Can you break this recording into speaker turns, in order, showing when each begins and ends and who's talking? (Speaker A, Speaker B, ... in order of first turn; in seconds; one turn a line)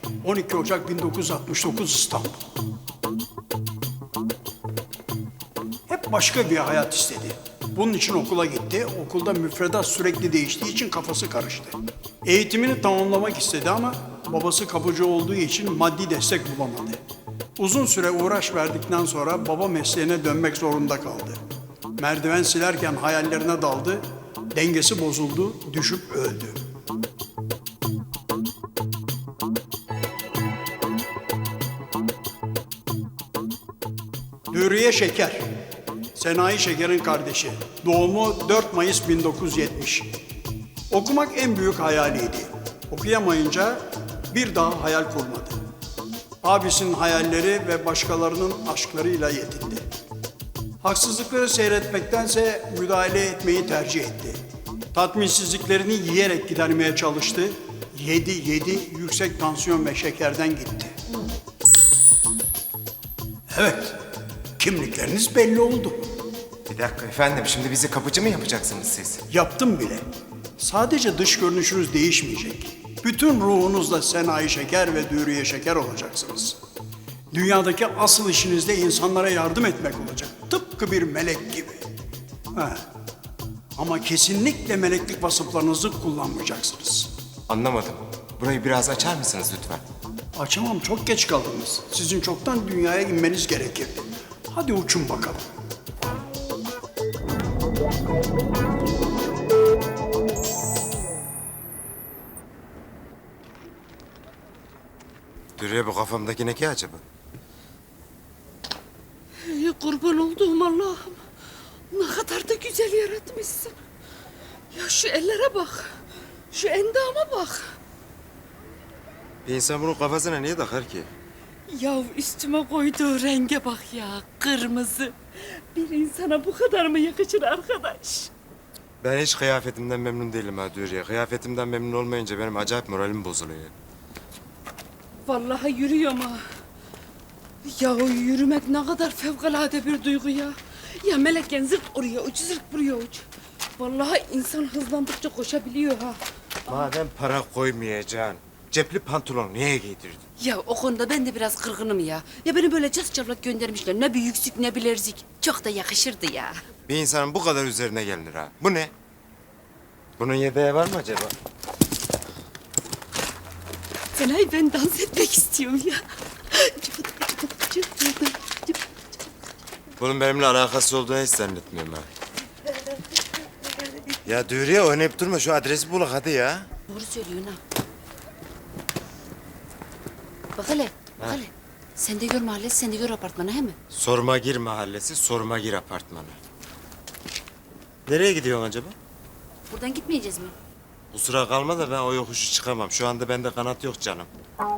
Speaker A: 0.2-2.4
Speaker A: 5.9-17.0
Speaker A: 17.6-21.4
Speaker A: 22.0-24.0
Speaker A: 24.5-26.6
Speaker A: 34.5-35.5
Speaker A: 36.2-40.2
Speaker A: 40.9-45.6
Speaker A: 46.4-49.9
Speaker A: 50.8-54.4
Speaker A: 54.9-60.9
Speaker A: 63.5-64.0
Speaker A: 64.6-66.1
Speaker B: 66.7-69.2
Speaker A: 69.3-70.0
Speaker A: 70.6-76.6
Speaker A: 77.3-81.9
Speaker A: 82.6-82.8
Speaker A: 83.8-87.1
Speaker B: 87.5-89.8
Speaker A: 90.4-95.5
Speaker B: 105.6-107.0
Speaker C: 109.5-111.2
Speaker C: 111.9-113.7
Speaker C: 114.7-115.9
Speaker C: 116.5-117.6
Speaker B: 119.5-121.1
Speaker C: 121.7-125.1
Speaker C: 125.8-128.3
Speaker B: 129.0-133.7
Speaker C: 135.3-136.4
Speaker C: 137.6-143.2
Speaker C: 143.8-146.2
Speaker B: 146.7-150.2
Speaker C: 150.4-156.6
Speaker B: 156.9-158.9
Speaker B: 160.2-161.3
Speaker C: 164.2-168.7
Speaker B: 170.0-172.1
Speaker B: 174.2-176.7
Speaker C: 176.9-177.6
Speaker C: 180.6-183.8
Speaker B: 183.9-186.4
Speaker B: 188.1-189.0
Speaker C: 189.7-190.5
Speaker B: 191.1-194.3